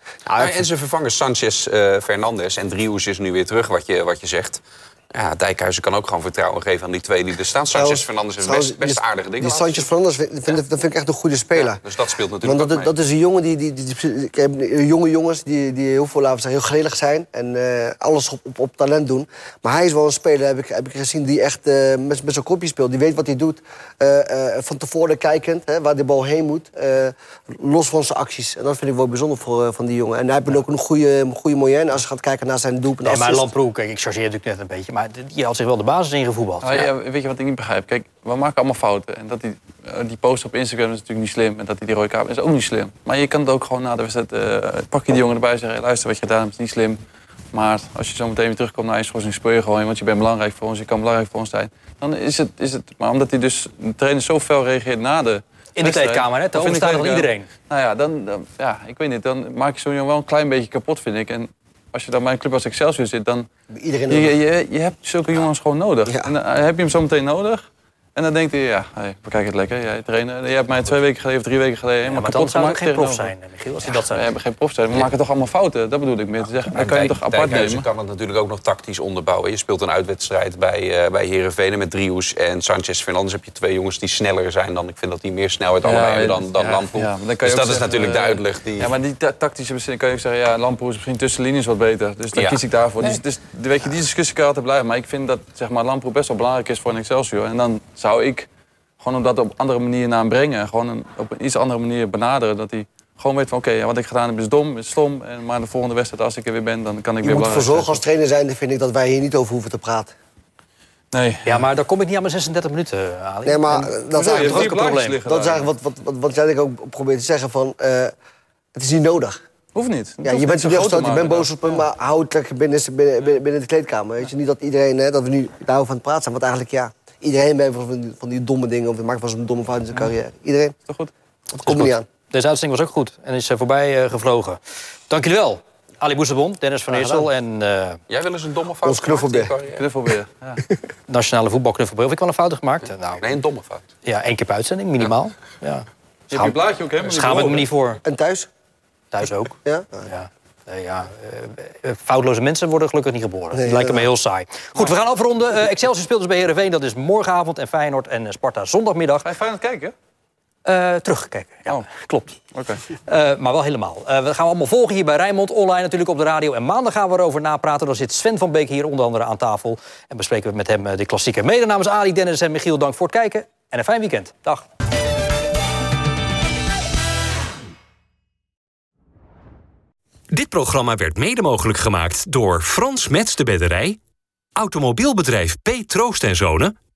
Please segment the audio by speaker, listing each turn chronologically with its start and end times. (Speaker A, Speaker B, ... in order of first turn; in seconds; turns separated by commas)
Speaker A: 0.3-9.8, Speaker B: 0.3-0.6, Speaker B: 7.7-11.8, Speaker A: 11.6-12.9, Speaker B: 12.4-33.5, Speaker C: 33.0-36.9, Speaker D: 36.6-47.0, Speaker D: 47.5-63.5, Speaker C: 55.8-57.5, Speaker B: 63.7-64.4, Speaker D: 64.1-73.3, Speaker C: 72.0-74.3, Speaker D: 73.9-77.9, Speaker A: 76.7-88.9, Speaker D: 85.8-98.5, Speaker A: 92.3-92.6, Speaker D: 99.0-108.0, Speaker B: 107.2-110.1, Speaker D: 111.1-111.6, Speaker C: 111.4-115.2, Speaker B: 113.5-118.1, Speaker D: 114.2-115.7, Speaker B: 118.7-119.4, Speaker D: 119.7-121.8, Speaker B: 120.2-130.8, Speaker D: 130.8-131.1, Speaker B: 131.5-132.1, Speaker C: 131.7-138.0, Speaker B: 136.9-137.3, Speaker A: 138.1-139.8, Speaker B: 138.8-139.5, Speaker D: 139.8-140.6, Speaker C: 141.1-143.2, Speaker A: 143.2-143.9, Speaker C: 144.0-148.0, Speaker D: 146.3-147.7, Speaker B: 148.0-148.5, Speaker C: 149.1-159.3, Speaker B: 149.6-150.0, Speaker B: 153.5-154.1, Speaker D: 159.2-159.9, Speaker C: 160.7-162.3, Speaker D: 162.5-162.8, Speaker C: 163.1-174.7, Speaker E: 180.3-184.0, Speaker E: 184.6-186.7